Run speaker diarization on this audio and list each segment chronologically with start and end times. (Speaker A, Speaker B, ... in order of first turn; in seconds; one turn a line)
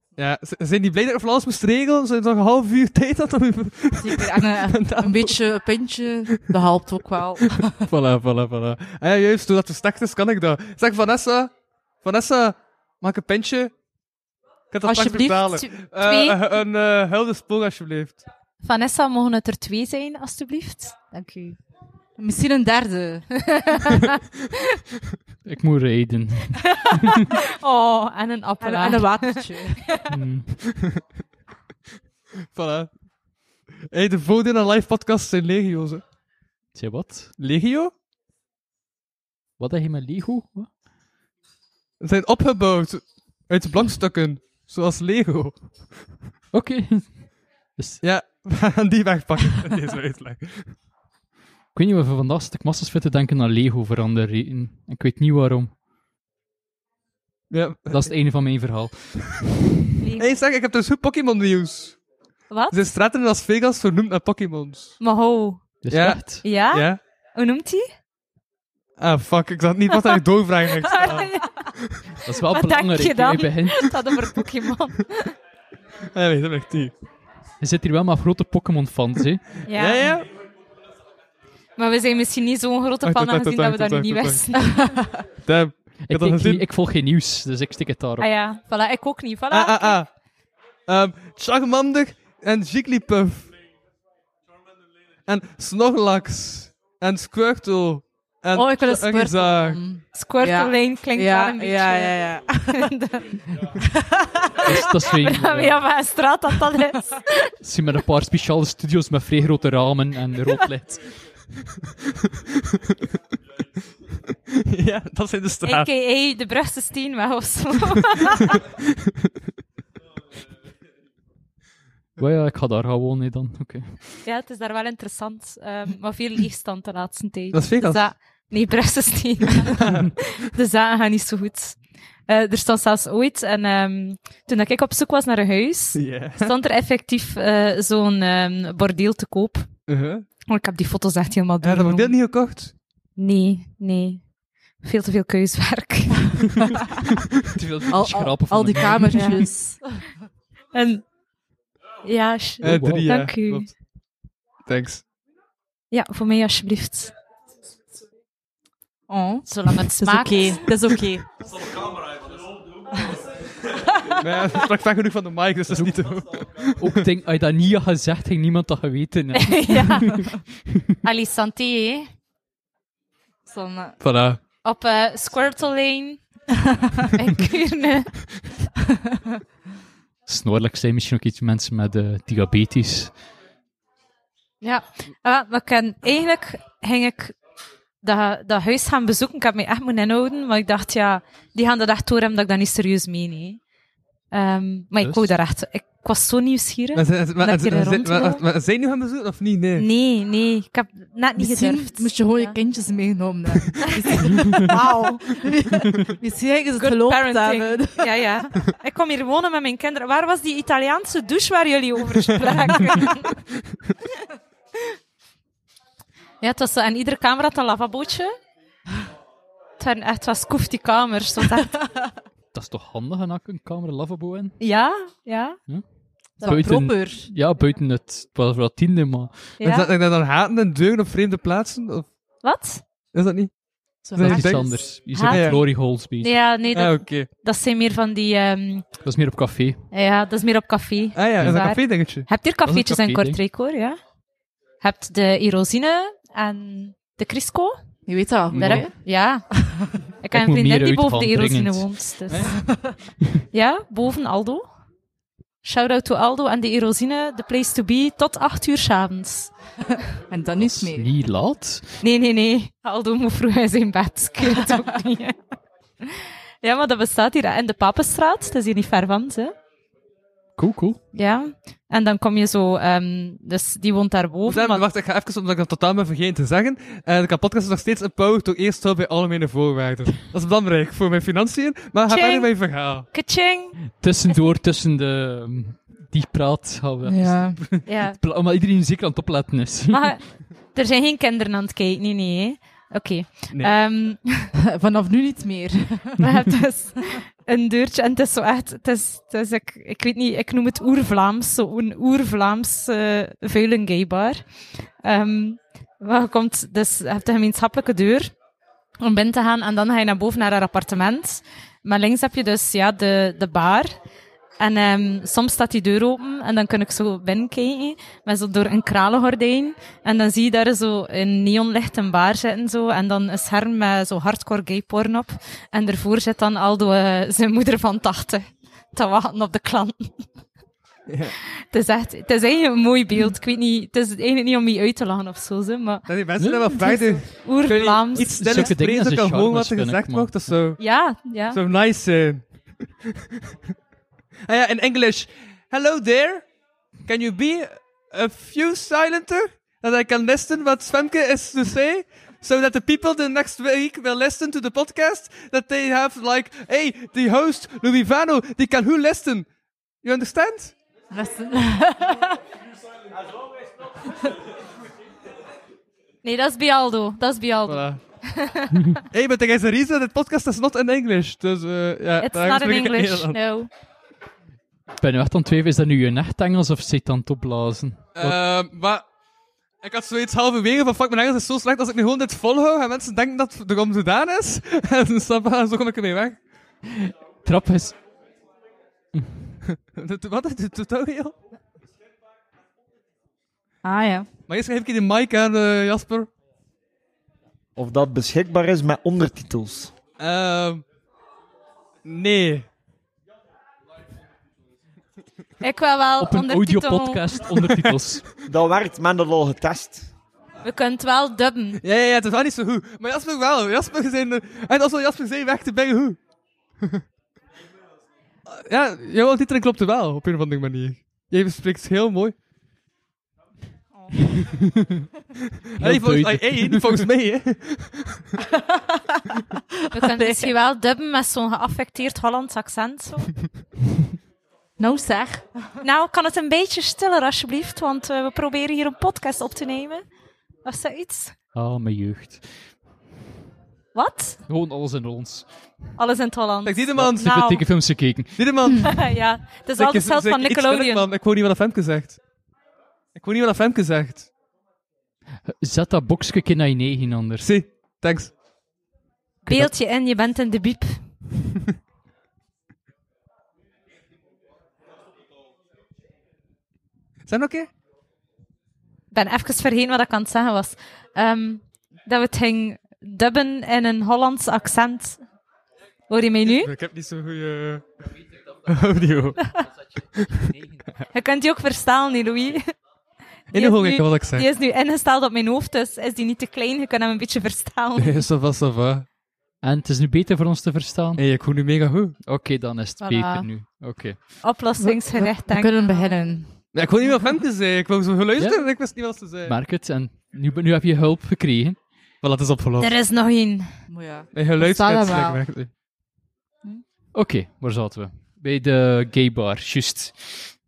Speaker A: 0.1-5.3
Speaker B: 4.0-7.8
Speaker A: 7.8-13.7
Speaker A: 14.7-18.2
Speaker B: 14.8-15.7
Speaker C: 15.8-16.4
Speaker C: 18.6-21.6
Speaker B: 22.2-23.7
Speaker C: 23.5-24.1
Speaker D: 25.4-27.2
Speaker C: 27.6-29.6
Speaker B: 28.6-30.0
Speaker D: 30.1-30.6
Speaker A: 32.5-33.0
Speaker A: 33.9-36.0
Speaker D: 36.7-37.3
Speaker A: 37.4-37.9
Speaker D: 39.6-40.7
Speaker A: 42.0-46.1
Speaker D: 46.5-48.0
Speaker A: 48.0-50.7
Speaker D: 51.7-55.7
Speaker A: 57.5-58.1
Speaker D: 57.9-59.2
Speaker C: 60.0-60.4
Speaker A: 60.2-62.0
Speaker C: 62.5-62.8
Speaker A: 62.7-65.0
Speaker C: 65.0-65.7
Speaker D: 65.8-66.5
Speaker A: 65.9-67.0
Speaker C: 66.4-67.9
Speaker A: 69.0-72.0
Speaker C: 69.9-70.2
Speaker C: 70.8-71.8
Speaker D: 72.2-74.1
Speaker C: 72.5-75.3
Speaker A: 76.1-76.9
Speaker D: 77.6-79.6
Speaker C: 79.6-80.2
Speaker A: 79.7-80.2
Speaker C: 81.8-84.9
Speaker A: 83.0-86.6
Speaker B: 84.8-85.2
Speaker D: 86.0-88.3
Speaker C: 88.2-90.0
Speaker A: 89.5-90.1
Speaker A: 90.9-93.5
Speaker A: 95.3-99.8
Speaker B: 98.5-102.9
Speaker C: 100.1-103.4
Speaker B: 103.8-104.8
Speaker D: 104.6-105.8
Speaker C: 105.0-107.5
Speaker D: 107.6-111.1
Speaker A: 114.5-115.9
Speaker C: 115.6-118.6
Speaker D: 122.2-124.1
Speaker C: 124.2-139.7
Speaker A: 127.5-128.0
Speaker A: 129.8-130.1
Speaker A: 135.9-136.5
Speaker A: 139.9-140.2
Speaker C: 140.5-142.2
Speaker A: 141.6-142.7
Speaker C: 143.2-144.3
Speaker C: 144.8-146.5
Speaker D: 147.5-149.3
Speaker B: 147.9-150.0
Speaker C: 149.1-149.4
Speaker C: 150.7-151.0
Speaker C: 152.0-153.7
Speaker A: 152.6-153.7
Speaker D: 152.6-153.1
Speaker A: 154.7-155.0
Speaker C: 155.9-157.1
Speaker B: 159.1-161.3
Speaker C: 159.5-160.7
Speaker A: 164.2-167.0
Speaker D: 165.7-166.0
Speaker D: 166.8-170.4
Speaker C: 169.3-170.3
Speaker C: 171.0-172.1
Speaker B: 173.4-174.0
Speaker A: 174.0-174.4
Speaker C: 174.6-176.4
Speaker C: 177.1-178.2
Speaker D: 180.2-183.2
Speaker C: 184.6-187.3
Speaker C: 188.0-193.6
Speaker C: 194.3-198.4
Speaker D: 195.0-195.3
Speaker A: 196.9-199.9
Speaker C: 199.8-202.6
Speaker B: 201.4-208.2
Speaker C: 206.8-213.4
Speaker C: 216.4-218.3
Speaker C: 219.8-221.8
Speaker B: 221.8-222.1
Speaker D: 222.5-224.6
Speaker C: 224.6-225.6
Speaker D: 225.7-229.5
Speaker B: 226.4-227.3
Speaker C: 229.6-229.9
Speaker A: 229.6-232.1
Speaker C: 232.4-232.8
Speaker A: 233.1-233.5
Speaker B: 234.0-234.8
Speaker A: 234.1-235.6
Speaker D: 234.2-236.4
Speaker C: 235.1-238.9
Speaker A: 236.7-237.3
Speaker D: 239.0-239.8
Speaker C: 239.9-244.0
Speaker A: 241.1-242.3
Speaker D: 241.4-241.7
Speaker D: 242.6-243.4
Speaker C: 244.8-247.8
Speaker B: 248.1-248.9
Speaker C: 248.5-249.7
Speaker D: 248.5-248.8
Speaker C: 250.2-252.6
Speaker D: 250.3-252.1
Speaker B: 252.5-252.9
Speaker C: 253.5-254.7
Speaker C: 255.6-259.5
Speaker B: 260.3-261.1
Speaker D: 260.6-261.9
Speaker C: 262.0-265.4
Speaker C: 266.0-269.5
Speaker D: 270.6-271.0
Speaker C: 271.1-274.9
Speaker A: 274.5-283.1
Speaker C: 282.1-283.8
Speaker D: 283.9-290.2
Speaker B: 287.0-287.8
Speaker C: 287.8-288.2
Speaker C: 289.9-294.5
Speaker B: 294.6-296.4
Speaker C: 296.2-304.4
Speaker C: 305.0-308.3
Speaker C: 309.0-313.9
Speaker C: 314.6-330.1
Speaker A: 331.1-331.3
Speaker C: 331.7-336.1
Speaker A: 336.1-340.8
Speaker D: 336.4-336.8
Speaker C: 336.7-338.7
Speaker D: 338.1-340.5
Speaker C: 340.8-341.6
Speaker A: 341.5-342.9
Speaker A: 344.5-346.5
Speaker A: 347.1-359.5
Speaker A: 360.0-360.7
Speaker B: 361.1-362.4
Speaker C: 366.2-368.9
Speaker A: 367.7-368.0
Speaker A: 369.1-373.4
Speaker C: 372.2-373.7
Speaker D: 375.0-378.4
Speaker A: 378.1-379.0
Speaker A: 379.8-386.4
Speaker D: 387.0-388.0
Speaker D: 389.1-389.6
Speaker A: 389.7-391.3
Speaker B: 393.8-394.3
Speaker A: 394.5-396.3
Speaker E: 397.8-399.9
Speaker A: 400.2-400.8
Speaker A: 402.0-402.6
Speaker C: 405.6-407.2
Speaker D: 406.2-408.3
Speaker E: 408.5-409.9
Speaker C: 410.6-411.8
Speaker A: 411.8-416.2
Speaker A: 418.5-422.3
Speaker A: 425.8-428.2
Speaker D: 425.8-427.0
Speaker B: 428.5-430.5
Speaker C: 429.9-433.4
Speaker B: 434.8-435.7
Speaker C: 435.8-440.0
Speaker C: 440.6-441.3
Speaker D: 441.5-442.4
Speaker C: 443.9-444.4
Speaker D: 444.5-445.5
Speaker C: 445.9-447.6
Speaker A: 446.6-447.4
Speaker D: 447.0-448.5
Speaker A: 448.4-449.1
Speaker C: 448.8-451.1
Speaker A: 449.8-452.2
Speaker A: 453.1-454.3
Speaker D: 455.5-457.5
Speaker A: 457.4-458.3
Speaker C: 459.4-461.0
Speaker A: 467.2-467.7
Speaker C: 469.1-475.2
Speaker C: 476.1-476.7
Speaker A: 476.4-477.8
Speaker A: 478.7-479.6
Speaker A: 480.1-480.5
Speaker C: 481.1-482.6
Speaker A: 483.5-484.5
Speaker C: 483.5-488.2
Speaker A: 488.0-489.0
Speaker D: 489.6-491.2
Speaker A: 491.2-492.2
Speaker D: 492.2-494.5
Speaker C: 493.0-493.7
Speaker C: 494.4-496.1
Speaker B: 494.8-496.6
Speaker A: 496.7-499.6
Speaker D: 498.4-501.8
Speaker A: 502.2-502.9
Speaker C: 502.8-503.8
Speaker B: 503.9-505.4
Speaker A: 504.3-505.7
Speaker D: 507.1-510.5